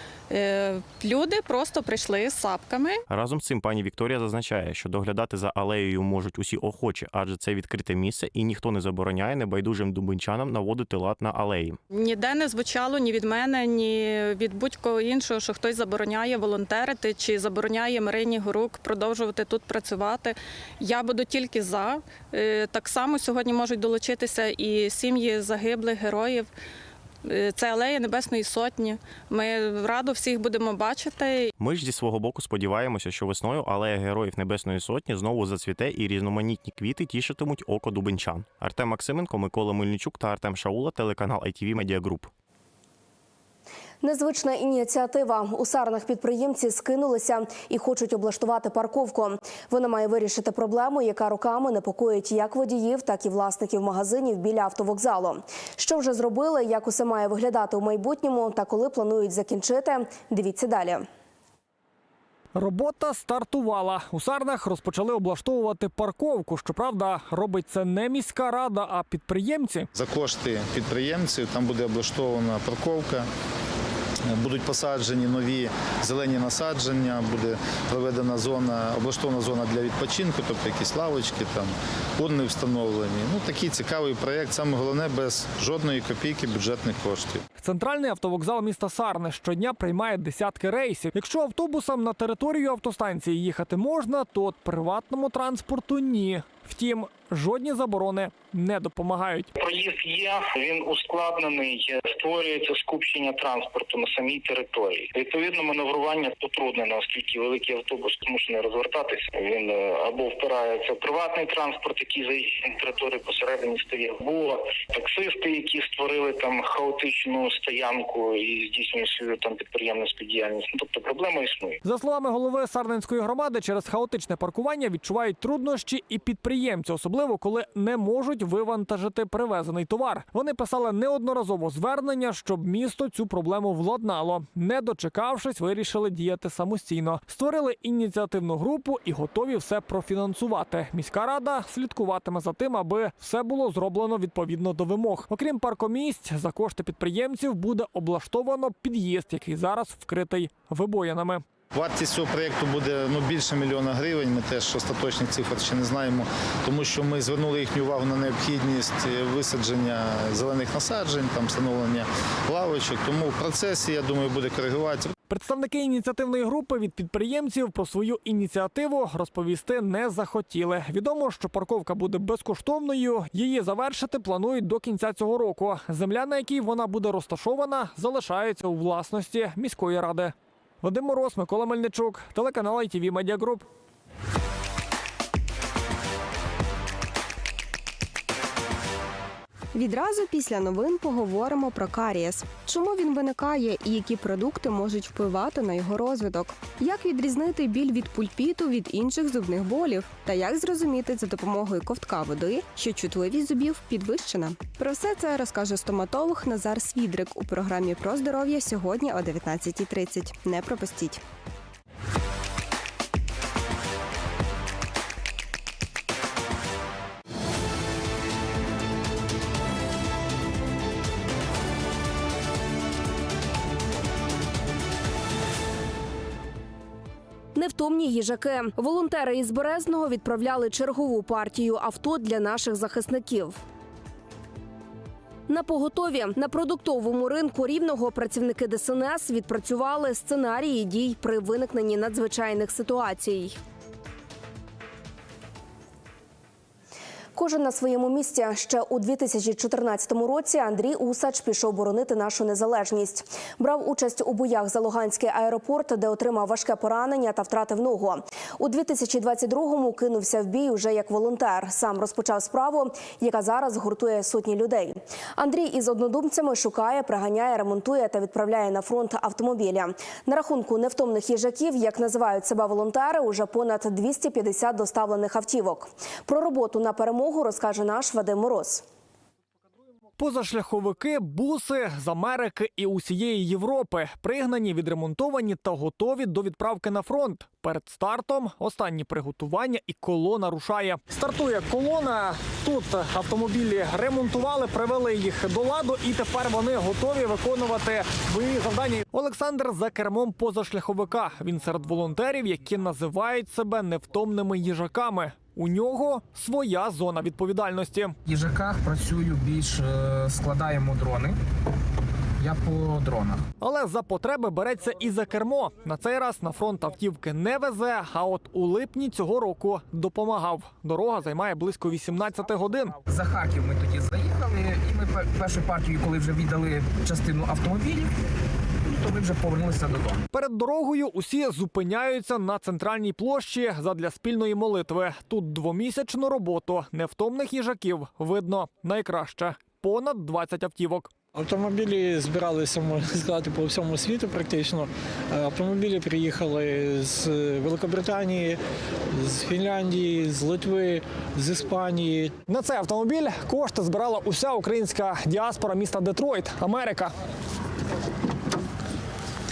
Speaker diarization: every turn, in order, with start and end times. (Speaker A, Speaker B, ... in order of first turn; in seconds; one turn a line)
Speaker A: 0.3-3.0
Speaker B: 3.1-11.8
Speaker A: 11.9-26.5
Speaker A: 27.2-31.5
Speaker B: 31.6-42.3
Speaker C: 44.0-61.0
Speaker D: 62.5-69.9
Speaker E: 69.9-73.3
Speaker E: 74.3-87.4
Speaker D: 87.6-99.5
Speaker F: 99.6-121.8
Speaker D: 121.8-151.4
Speaker E: 151.7-165.1
Speaker D: 165.3-183.6
Speaker G: 189.7-211.2
Speaker C: 227.5-233.6
Speaker C: 235.5-243.6
Speaker C: 247.3-278.8
Speaker D: 280.2-308.1
Speaker H: 308.3-311.4
Speaker H: 312.4-313.4
Speaker D: 313.6-322.9
Speaker H: 323.1-328.1
Speaker H: 328.9-330.2
Speaker D: 330.3-341.1
Speaker I: 341.3-348.6
Speaker I: 349.1-352.4
Speaker D: 352.5-357.1